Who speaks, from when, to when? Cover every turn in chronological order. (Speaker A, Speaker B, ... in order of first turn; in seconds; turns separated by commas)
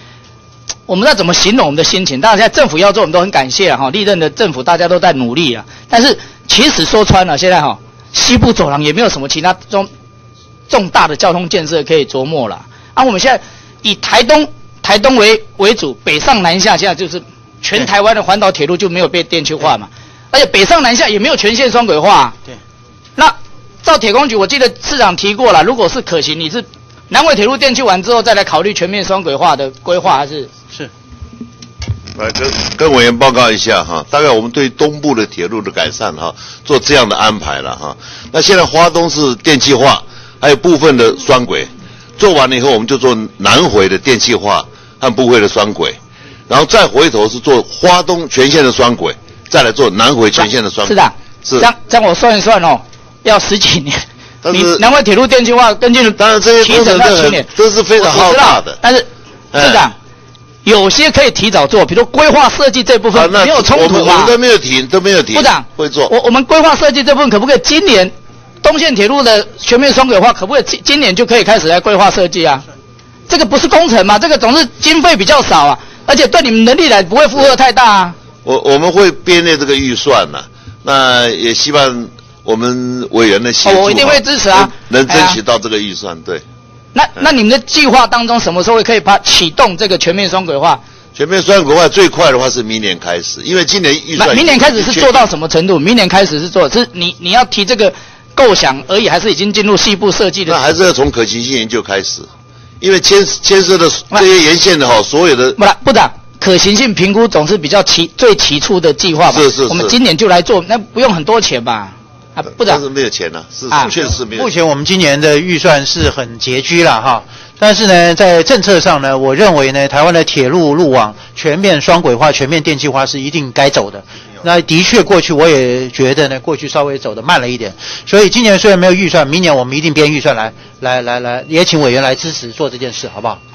Speaker A: 0.9-9.9, Speaker A: 10.7-22.4, Speaker A: 23.1-30.5, Speaker B: 32.1-46.0, Speaker B: 46.5-51.7, Speaker A: 50.4-59.9, Speaker B: 54.4-54.8, Speaker B: 56.2-58.8, Speaker B: 59.5-59.8, Speaker A: 60.6-64.4, Speaker B: 63.1-66.1, Speaker A: 65.3-68.1, Speaker A: 68.6-72.6, Speaker A: 73.3-78.2, Speaker B: 78.4-86.4, Speaker A: 83.6-85.4, Speaker A: 86.9-90.8, Speaker B: 91.1-95.3, Speaker A: 94.2-100.6, Speaker B: 100.5-102.3, Speaker B: 102.8-105.6, Speaker A: 105.6-112.8, Speaker B: 109.3-109.9, Speaker B: 112.5-114.5, Speaker C: 114.3-133.4